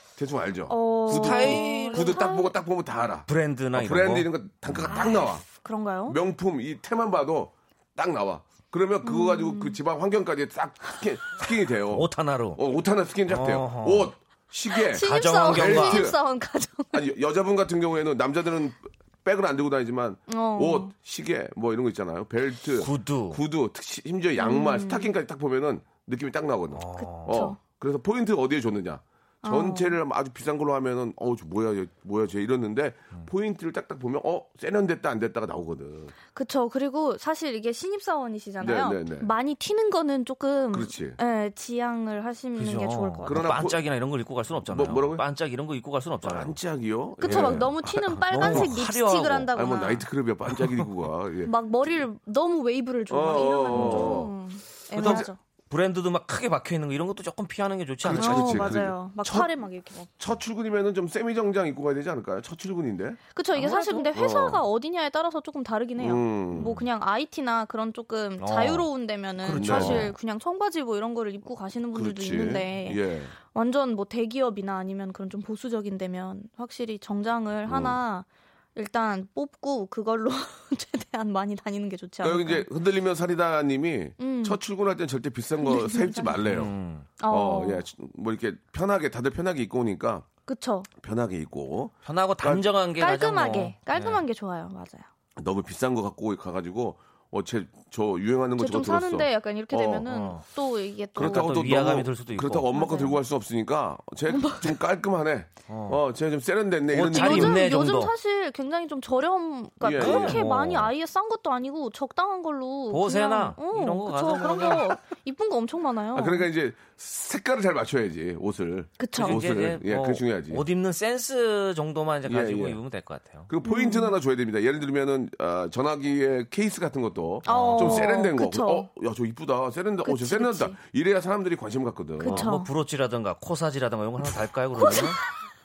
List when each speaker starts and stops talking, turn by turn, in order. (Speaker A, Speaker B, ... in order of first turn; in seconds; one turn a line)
Speaker A: 0.2-5.5
Speaker B: 0.7-2.6
Speaker C: 1.1-2.2
Speaker C: 3.3-5.0
Speaker B: 4.8-6.2
Speaker A: 6.1-16.2
Speaker B: 9.0-9.8
Speaker C: 11.9-12.6
Speaker C: 13.3-14.1
Speaker B: 14.7-17.0
Speaker C: 15.0-16.1
Speaker A: 16.9-36.1
Speaker B: 20.3-20.9
Speaker C: 22.8-23.4
Speaker B: 24.4-25.1
Speaker C: 26.7-27.4
Speaker B: 27.0-27.6
Speaker B: 29.4-30.0
Speaker B: 36.3-43.4
Speaker A: 38.6-39.3
Speaker A: 40.7-41.2
Speaker C: 42.6-46.6
Speaker A: 43.3-43.8
Speaker A: 44.7-45.2
Speaker A: 46.2-48.7
Speaker C: 47.2-49.5
Speaker B: 47.2-50.1
Speaker A: 49.5-51.5
Speaker C: 50.5-50.8
Speaker B: 51.5-55.4
Speaker A: 53.1-54.3
Speaker C: 53.7-54.3
Speaker C: 54.9-58.8
Speaker A: 55.0-55.3
Speaker A: 58.0-59.5
Speaker B: 58.1-60.1
Speaker A: 60.2-64.6
Speaker B: 63.4-82.7
Speaker C: 63.6-64.0
Speaker A: 66.0-66.8
Speaker C: 68.4-68.9
Speaker C: 69.4-70.1
Speaker A: 69.5-70.1
Speaker A: 71.9-73.3
Speaker A: 77.7-78.0
Speaker A: 82.2-86.7
Speaker B: 84.2-84.6
Speaker B: 85.6-86.6
Speaker C: 86.5-87.1
Speaker B: 87.2-87.9
Speaker A: 87.3-90.3
Speaker B: 90.5-90.9
Speaker A: 91.0-92.7
Speaker C: 92.0-94.2
Speaker B: 93.0-95.1
Speaker A: 95.4-100.1
Speaker B: 98.6-101.7
Speaker C: 100.1-100.4
Speaker C: 101.2-102.7
Speaker A: 101.2-107.7
Speaker B: 102.7-103.2
Speaker B: 104.3-104.8
Speaker C: 105.7-106.0
Speaker C: 106.9-108.1
Speaker B: 107.1-116.5
Speaker A: 109.8-110.5
Speaker C: 110.0-110.9
Speaker C: 112.9-114.9
Speaker A: 116.1-120.6
Speaker B: 119.0-119.5
Speaker C: 119.1-123.5
Speaker A: 122.3-122.8
Speaker A: 123.5-132.5
Speaker B: 123.6-124.2
Speaker B: 127.5-128.9
Speaker C: 127.5-128.1
Speaker B: 130.0-130.8
Speaker B: 132.2-132.7
Speaker C: 132.2-135.2
Speaker B: 134.8-135.2